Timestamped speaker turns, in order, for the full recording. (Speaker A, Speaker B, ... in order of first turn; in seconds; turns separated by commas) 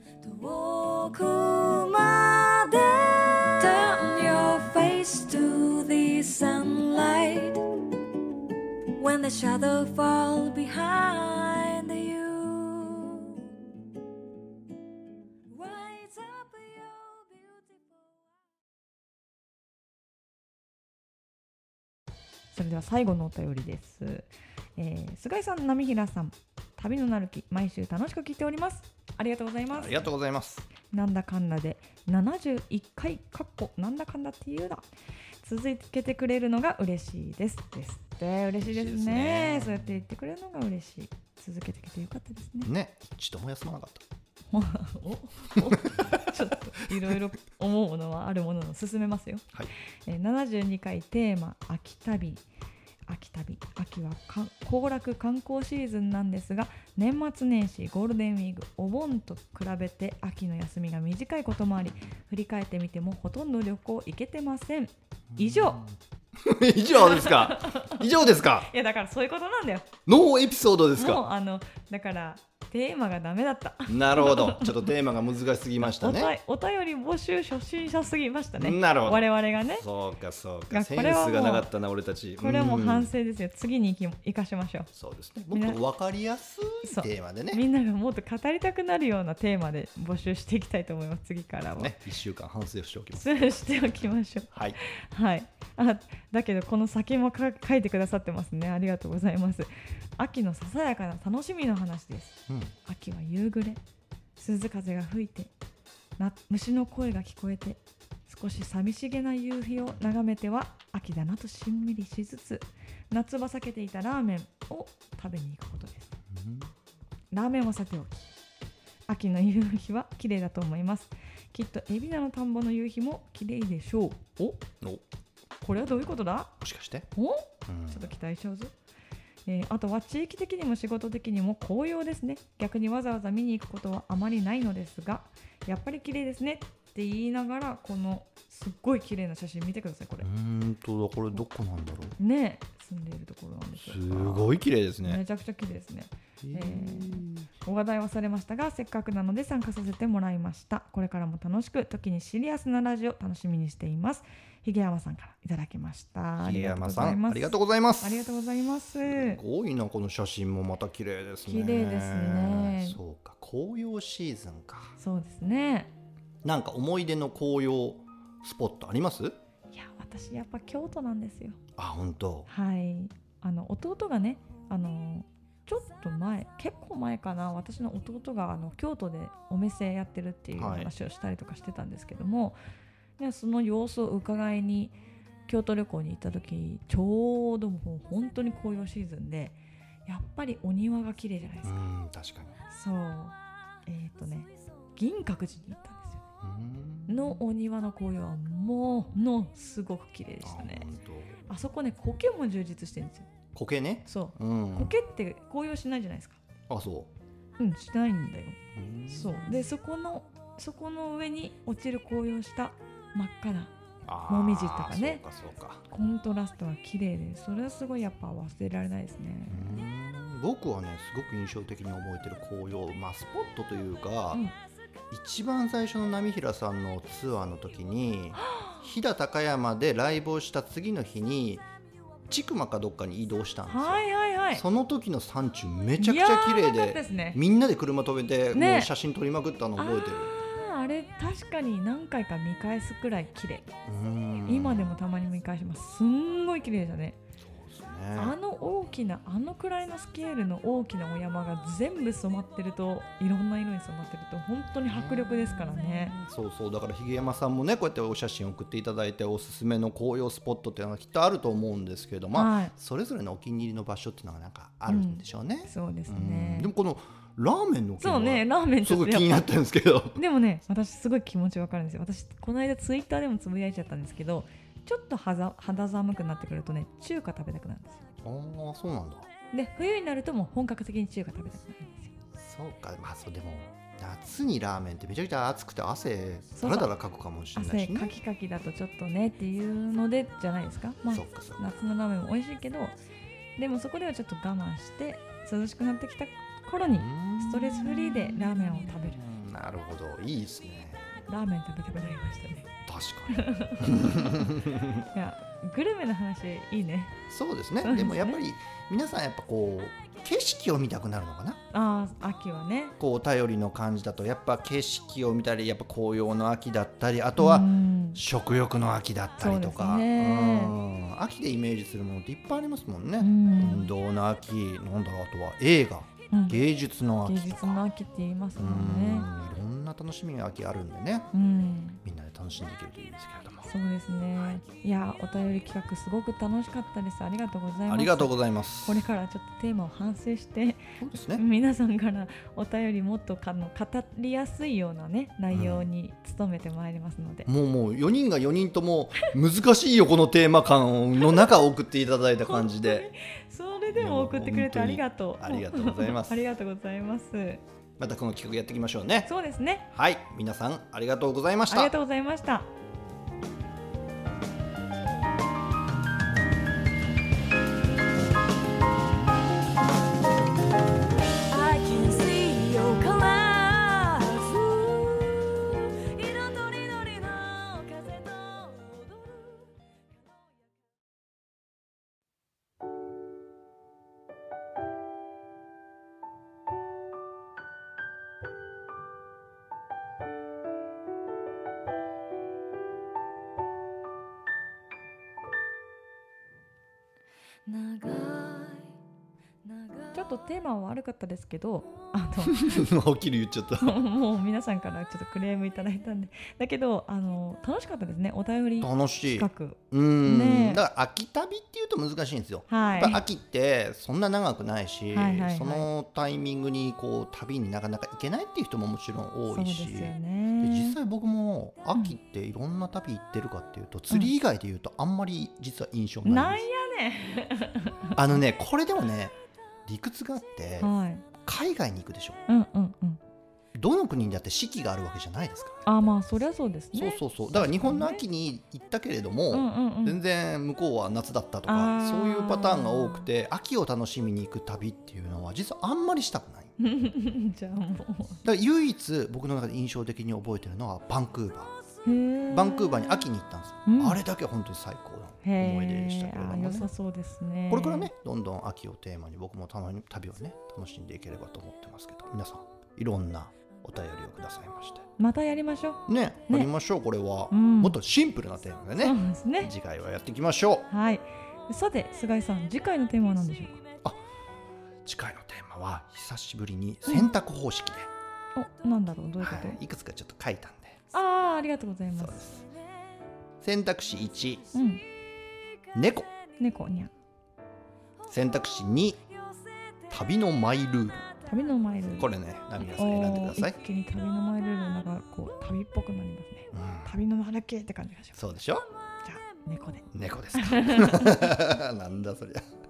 Speaker A: 0.2-7.6, Speaker A: 9.0-13.4, Speaker A: 15.5-18.2, Speaker B: 22.5-30.1, Speaker C: 29.7-30.7, Speaker B: 30.9-34.9, Speaker B: 35.4-42.7, Speaker C: 38.6-39.9, Speaker C: 42.6-44.0, Speaker B: 44.5-49.5, Speaker C: 45.7-46.0, Speaker B: 50.1-52.4, Speaker B: 53.1-65.8, Speaker C: 65.3-68.7, Speaker B: 66.9-69.9, Speaker C: 70.0-71.2, Speaker B: 70.9-74.9, Speaker C: 73.9-76.3, Speaker B: 75.8-79.8, Speaker C: 78.6-83.1, Speaker B: 80.7-81.7, Speaker B: 82.4-84.9, Speaker C: 84.9-87.6, Speaker B: 85.5-85.8, Speaker B: 86.8-92.0, Speaker C: 91.8-93.3, Speaker B: 93.1-103.8, Speaker C: 94.5-94.8, Speaker C: 102.5-102.7, Speaker B: 104.4-105.5, Speaker B: 106.2-116.1, Speaker C: 116.3-116.7, Speaker B: 117.3-118.3, Speaker B: 119.1-124.6, Speaker B: 125.6-126.5, Speaker C: 126.6-127.1, Speaker B: 127.1-128.7, Speaker C: 127.7-128.1, Speaker B: 129.4-140.3, Speaker C: 140.2-142.2, Speaker B: 142.2-159.4, Speaker C: 143.7-145.2, Speaker C: 146.4-147.5, Speaker C: 156.4-158.2, Speaker C: 159.0-164.9, Speaker B: 161.4-163.0, Speaker B: 165.0-165.9, Speaker C: 166.4-169.3, Speaker B: 169.7-171.6, Speaker C: 171.8-172.5, Speaker B: 172.5-182.6, Speaker C: 180.5-180.9, Speaker B: 183.2-184.9, Speaker B: 185.5-191.8, Speaker C: 191.6-192.6, Speaker B: 192.7-193.3, Speaker B: 193.8-196.2, Speaker C: 196.4-197.4, Speaker B: 197.1-200.9, Speaker C: 200.4-201.4, Speaker B: 201.5-203.3, Speaker C: 203.5-204.9, Speaker B: 204.1-206.4, Speaker C: 206.7-207.1, Speaker B: 207.6-213.7, Speaker C: 208.7-209.7, Speaker C: 214.0-215.8, Speaker B: 214.3-215.2, Speaker B: 215.9-219.9, Speaker C: 219.5-224.4, Speaker C: 225.1-231.7, Speaker B: 228.4-228.8, Speaker C: 232.3-240.3, Speaker B: 233.7-234.6, Speaker B: 236.0-237.4, Speaker B: 238.5-238.9, Speaker B: 239.8-243.7, Speaker C: 243.8-244.9, Speaker B: 244.4-247.2, Speaker C: 247.4-248.3, Speaker B: 248.1-256.2, Speaker C: 254.7-270.2, Speaker B: 262.3-262.7, Speaker B: 264.9-266.7, Speaker B: 268.0-269.4, Speaker B: 270.1-278.0, Speaker C: 278.2-279.3, Speaker B: 279.5-282.1, Speaker C: 282.3-288.1, Speaker B: 286.6-286.9, Speaker B: 287.5-292.9, Speaker C: 291.1-291.7, Speaker B: 293.6-299.2, Speaker C: 296.9-301.2, Speaker B: 301.3-302.7, Speaker C: 302.9-305.1, Speaker B: 303.3-307.2, Speaker C: 307.3-311.6, Speaker B: 307.8-308.4, Speaker B: 311.7-312.9, Speaker C: 313.0-327.8, Speaker B: 317.4-318.2, Speaker B: 319.4-320.7, Speaker B: 323.2-323.9, Speaker B: 326.3-326.6, Speaker B: 327.2-329.3, Speaker C: 328.6-331.3, Speaker B: 331.3-332.0, Speaker C: 332.0-333.7, Speaker B: 333.6-347.5, Speaker C: 337.9-339.0, Speaker C: 341.0-341.4, Speaker C: 345.5-345.9, Speaker C: 347.4-353.1, Speaker B: 352.4-357.6, Speaker C: 353.9-356.4, Speaker C: 358.0-359.3, Speaker B: 359.2-359.9, Speaker C: 359.9-361.9, Speaker B: 361.7-362.7, Speaker A: 371.5-379.7, Speaker A: 397.6-398.9, Speaker A: 399.6-400.2, Speaker B: 400.1-402.9, Speaker C: 402.4-404.0, Speaker B: 403.8-410.8, Speaker C: 408.8-426.6, Speaker B: 412.7-413.2, Speaker B: 415.1-415.9, Speaker B: 419.5-421.0, Speaker B: 426.2-428.2, Speaker C: 428.1-429.3, Speaker C: 429.9-430.9, Speaker B: 430.8-431.2, Speaker C: 431.4-432.4, Speaker B: 432.5-433.2, Speaker C: 433.7-435.8, Speaker B: 435.8-438.2, Speaker C: 436.9-446.7, Speaker B: 439.5-440.2, Speaker B: 441.7-443.3, Speaker B: 446.8-448.4, Speaker C: 448.4-451.7, Speaker B: 452.0-453.2, Speaker C: 452.5-456.9, Speaker B: 453.9-454.2, Speaker B: 455.4-458.1, Speaker C: 457.7-465.1, Speaker B: 465.2-466.7, Speaker C: 466.1-470.9, Speaker B: 467.5-468.0, Speaker B: 469.0-469.7, Speaker B: 470.9-473.8, Speaker C: 475.0-478.1, Speaker B: 478.5-479.8, Speaker C: 479.4-481.0, Speaker B: 481.1-482.6, Speaker C: 482.2-482.6, Speaker C: 483.6-484.6, Speaker B: 484.7-485.0, Speaker C: 485.9-486.3, Speaker B: 486.6-487.1, Speaker C: 488.3-489.2, Speaker A: 489.4-490.1, Speaker C: 490.1-491.3, Speaker B: 491.5-492.3, Speaker C: 492.1-493.8, Speaker B: 492.8-498.5, Speaker C: 496.7-497.1, Speaker C: 498.4-498.9, Speaker B: 499.2-501.4, Speaker C: 500.1-502.6